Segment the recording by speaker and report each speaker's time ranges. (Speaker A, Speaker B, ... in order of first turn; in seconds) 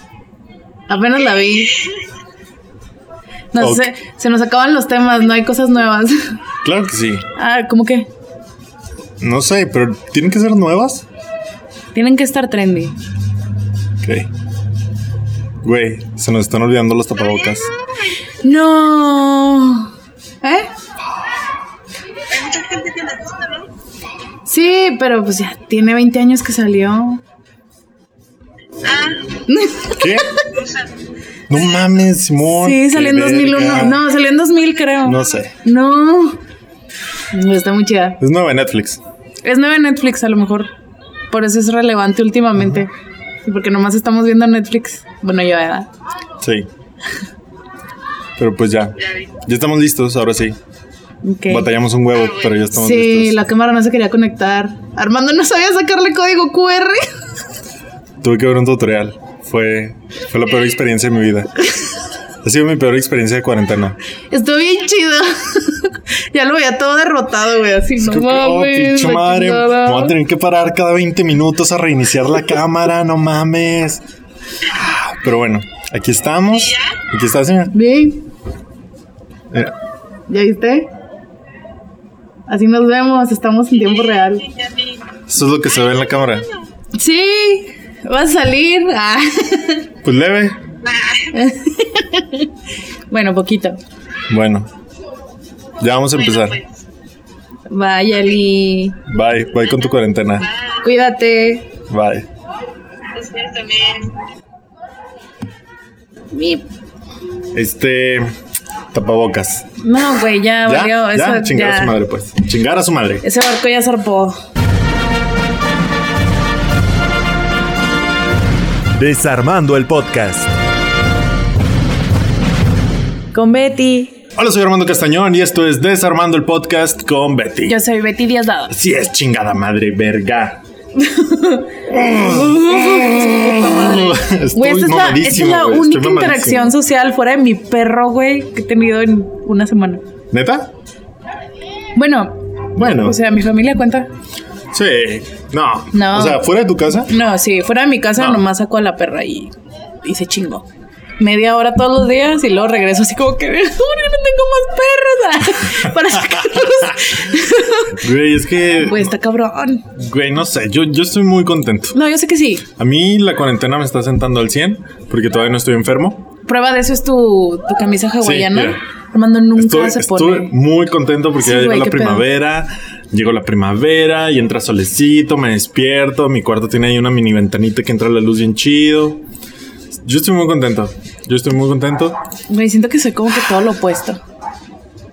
Speaker A: 0.9-1.8, 3.5-6.2, 7.3-8.1, 11.9-13.0, 18.4-19.9, 20.4-20.7, 24.4-27.2, 29.5-30.4, 32.6-36.4, 37.3-38.2, 39.4-40.7, 41.3-42.9, 43.4-45.9, 51.2-51.7, 52.7-57.1, 64.3-70.2, 77.7-78.3, 80.3-80.9, 82.5-84.5, 86.9-89.9, 91.3-92.5, 93.1-93.8, 97.7-99.0, 100.8-101.7, 106.3-106.6, 109.8-112.0, 113.2-114.4, 123.3-124.1, 127.7-128.7, 131.0-140.0, 141.9-144.1, 145.9-146.4, 147.1-149.5, 150.0-150.7, 151.2-158.0, 158.8-159.9, 161.9-162.7, 166.4-170.5, 171.4-172.3, 182.5-184.2
Speaker B: 3.6-3.9, 6.6-7.2, 9.2-11.0, 14.0-14.3, 15.6-17.7, 29.9-30.3, 31.5-34.0, 35.0-35.5, 38.2-39.0, 46.4-46.7, 48.4-50.6, 51.5-53.4, 58.2-61.5, 62.4-64.0, 68.0-74.0, 74.6-77.7, 85.3-86.5, 90.0-90.6, 94.3-94.7, 95.8-96.6, 99.1-100.5, 101.9-102.3, 107.5-108.3, 108.9-109.7, 110.6-113.2, 118.9-120.5, 124.3-127.8, 128.7-130.6, 131.9-136.7, 140.3-140.7, 142.8-143.2, 144.7-147.1, 148.2-148.4, 157.9-159.1, 159.9-161.9, 162.7-166.3, 168.2-168.8, 169.6-179.2, 180.0-182.2
Speaker C: 17.3-17.7, 22.3-23.7, 28.8-29.4, 30.5-30.9, 84.5-84.9, 91.0-91.3, 100.4-100.7, 103.1-104.2